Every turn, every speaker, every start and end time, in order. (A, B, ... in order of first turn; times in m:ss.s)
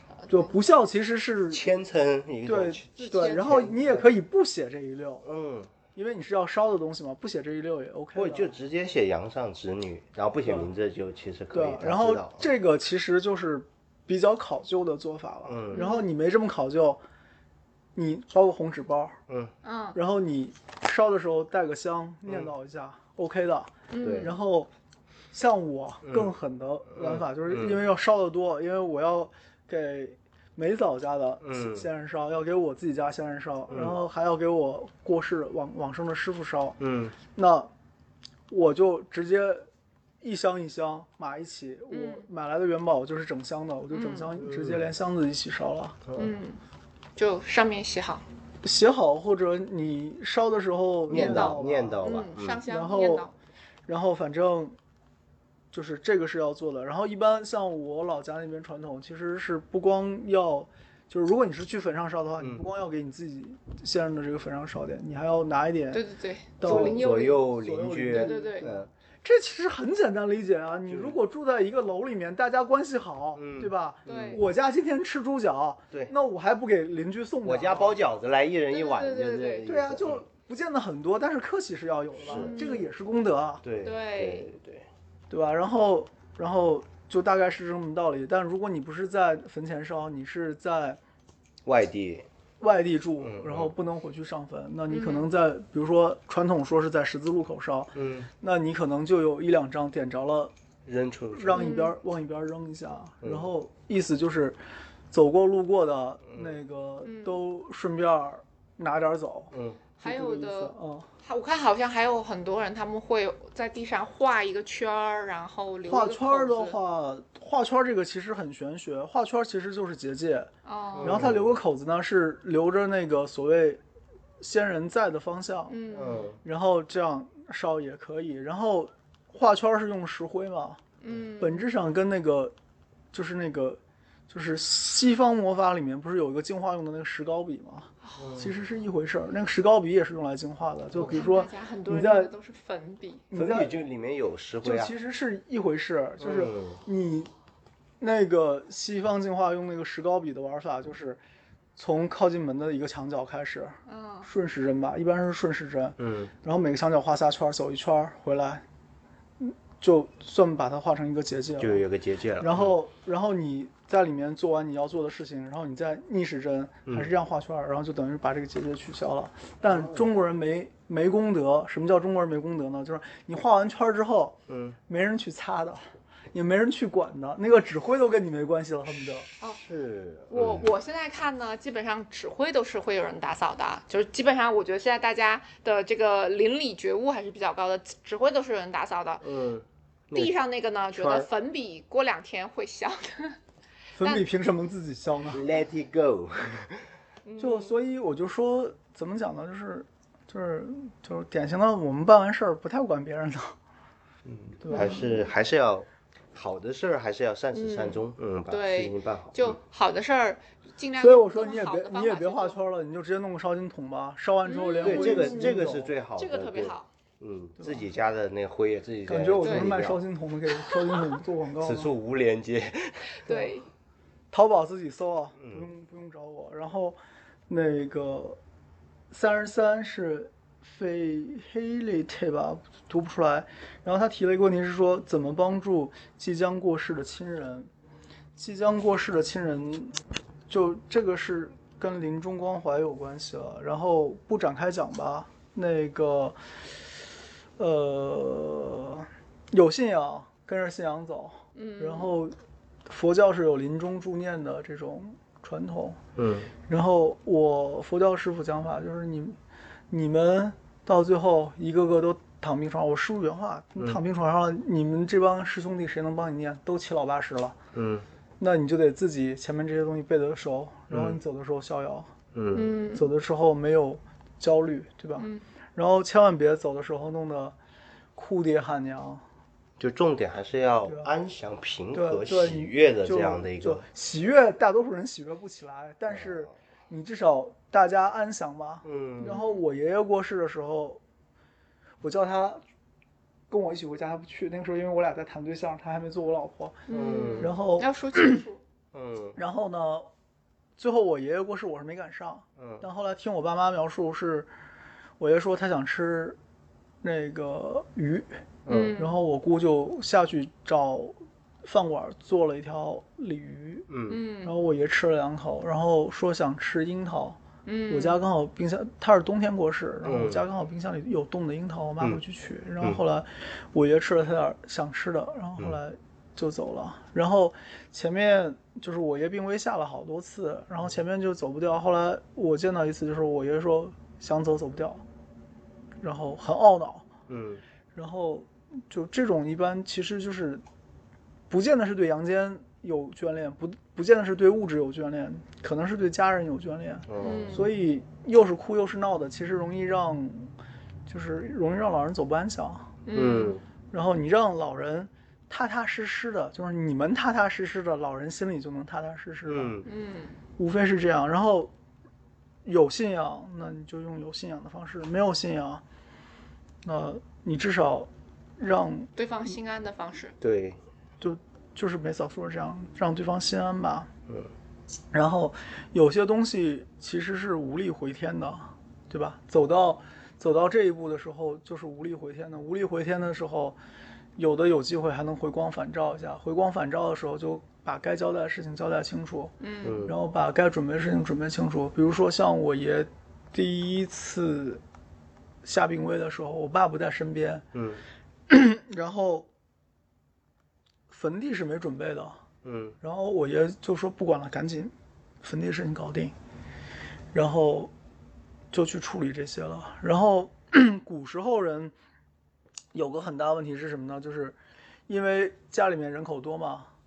0:00.2-0:00.5 A
0:00.3-0:01.6 B
0:01.5-0:04.1 C
0:02.4-0:05.3 B
0:03.0-0:03.7 A
0:05.2-0:05.7 C
0:06.0-0:08.5 B
0:08.2-0:12.5 C
0:11.5-0:17.0 B
0:15.5-0:15.9 C
0:15.7-0:16.1 A
0:18.0-0:19.2 B
0:19.3-0:19.5 C
0:19.6-0:20.0 A
0:19.9-0:24.7 B
0:23.9-0:24.4 A
0:24.0-0:24.3 C
0:25.3-0:36.8 B
0:26.0-0:26.3 C
0:26.9-0:27.8 C
0:31.4-0:31.9 C
0:33.7-0:34.0 C
0:36.8-0:37.2 C
0:37.3-0:37.7 B
0:38.5-0:39.7 B
0:40.2-0:46.0 B
0:41.9-0:42.3 A
0:43.9-0:44.3 A
0:44.4-0:44.9 C
0:46.1-0:46.4 C
0:46.2-0:46.6 A
0:47.2-0:48.2 A
0:48.6-0:52.1 B
0:51.1-0:52.6 C
0:51.1-0:53.3 A
0:52.7-0:53.3 B
0:53.9-0:54.8 B
0:55.7-1:06.0 B
1:02.4-1:02.6 C
1:05.9-1:07.4 A
1:06.6-1:18.0 B
1:06.6-1:08.9 C
1:08.1-1:08.7 A
1:10.9-1:11.2 C
1:13.4-1:14.4 C
1:14.1-1:14.4 A
1:17.4-1:20.2 C
1:18.7-1:19.7 A
1:19.6-1:23.6 B
1:22.2-1:22.6 C
1:22.3-1:22.9 A
1:23.6-1:24.9 C
1:23.8-1:24.5 A
1:25.3-1:31.0 B
1:31.6-1:32.3 C
1:32.6-1:40.5 B
1:33.2-1:33.7 C
1:34.9-1:35.3 A
1:38.0-1:38.3 C
1:40.9-1:41.7 C
1:41.3-1:44.6 B
1:41.5-1:42.0 A
1:43.2-1:43.5 C
1:45.1-1:51.1 B
1:46.3-1:46.6 C
1:47.0-1:47.4 A
1:49.5-1:49.8 C
1:50.0-1:56.8 A
1:55.9-2:00.5 B
2:00.6-2:01.3 A
2:01.0-2:01.6 C
2:01.0-2:03.8 B
2:04.4-2:05.8 B
2:05.7-2:06.3 A
2:05.9-2:06.4 C
2:06.4-2:10.8 B
2:11.0-2:11.7 A
2:11.4-2:12.6 B
2:13.1-2:22.3 B
2:18.2-2:18.6 C
2:21.0-2:23.3 A
2:23.3-2:23.7 B
2:23.3-2:24.9 C
2:24.6-2:27.3 B
2:26.2-2:26.8 C
2:28.0-2:31.2 B
2:31.8-2:38.6 B
2:33.9-2:34.3 A
2:36.0-2:36.3 C
2:39.4-2:41.8 B
2:41.6-2:42.8 C
2:42.4-2:59.3 B
2:46.9-2:47.1 C
2:49.7-2:50.1 C
2:54.5-2:54.8 C
2:59.5-3:00.7 C
3:00.3-3:09.2 A
3:09.2-3:10.3 C
3:10.2-3:13.4 A
3:10.9-3:11.3 C
3:14.0-3:15.4 B
3:15.3-3:16.9 C
3:17.2-3:17.8 A
3:17.4-3:23.6 B
3:24.2-3:29.6 C
3:24.6-3:25.1 B
3:24.7-3:25.1 A
3:27.5-3:32.6 A
3:31.0-3:35.9 B
3:34.4-3:35.6 A
3:34.8-3:40.0 C
3:36.2-3:36.9 A
3:37.6-3:37.9 B
3:39.1-3:41.9 B
3:39.4-3:39.7 A
3:41.6-3:43.1 C
3:43.3-3:43.7 A
3:43.3-3:43.5 B
3:44.3-3:47.0 B
3:45.4-3:45.7 C
3:47.5-3:48.4 B
3:49.1-3:57.7 B
3:58.4-4:00.0 B
4:00.5-4:06.4 B
4:07.6-4:12.4 B
4:11.6-4:12.2 A
4:12.9-4:16.0 B
4:16.2-4:16.5 C
4:16.7-4:19.4 B
4:19.9-4:27.6 B
4:27.7-4:28.1 C
4:28.4-4:32.1 B
4:30.9-4:31.2 C
4:32.3-4:32.7 C
4:32.5-4:33.0 A
4:33.0-4:37.6 B
4:35.2-4:35.4 A
4:38.2-4:39.2 B
4:39.8-4:43.8 C
4:40.8-4:41.1 B
4:41.9-4:51.0 B
4:46.1-4:46.5 C
4:48.8-4:49.4 C
4:49.2-4:49.6 A
4:52.0-4:52.6 B
4:53.5-4:56.8 B
4:56.9-4:58.6 A
4:56.9-4:57.5 C
4:57.4-4:58.4 B
4:58.9-4:59.4 C
4:59.4-5:00.1 B
5:00.8-5:04.5 B
5:02.6-5:02.8 C
5:05.2-5:06.4 B
5:07.0-5:08.3 B
5:08.7-5:09.0 C
5:08.7-5:09.2 A
5:09.0-5:13.9 B
5:13.9-5:14.2 C
5:14.1-5:14.6 A
5:14.4-5:35.0 B
5:17.7-5:18.2 A
5:20.0-5:20.4 C
5:36.0-5:37.1 B
5:37.3-5:37.6 C
5:38.0-5:40.6 B
5:41.5-5:50.5 B
5:47.1-5:47.7 C
5:47.2-5:47.7 A
5:51.1-5:52.9 B
5:53.1-5:53.6 A
5:53.1-5:53.6 C
5:53.9-5:59.8 B
5:59.5-5:59.9 C
5:59.8-6:00.4 A
6:00.6-6:01.7 B
6:02.6-6:05.8 B
6:06.8-6:09.1 B
6:09.2-6:10.4 A
6:10.4-6:10.8 C
6:11.2-6:14.1 B
6:15.1-6:23.8 B
6:24.4-6:34.8 B
6:29.6-6:30.1 A
6:29.8-6:30.2 C
6:35.6-6:37.6 B
6:37.7-6:38.0 C
6:38.5-6:39.5 B
6:41.1-6:42.4 B
6:42.6-6:43.0 C
6:43.0-6:46.3 B
6:47.3-6:47.9 B
6:48.7-6:51.9 B
6:52.9-6:54.6 B
6:55.1-6:56.9 B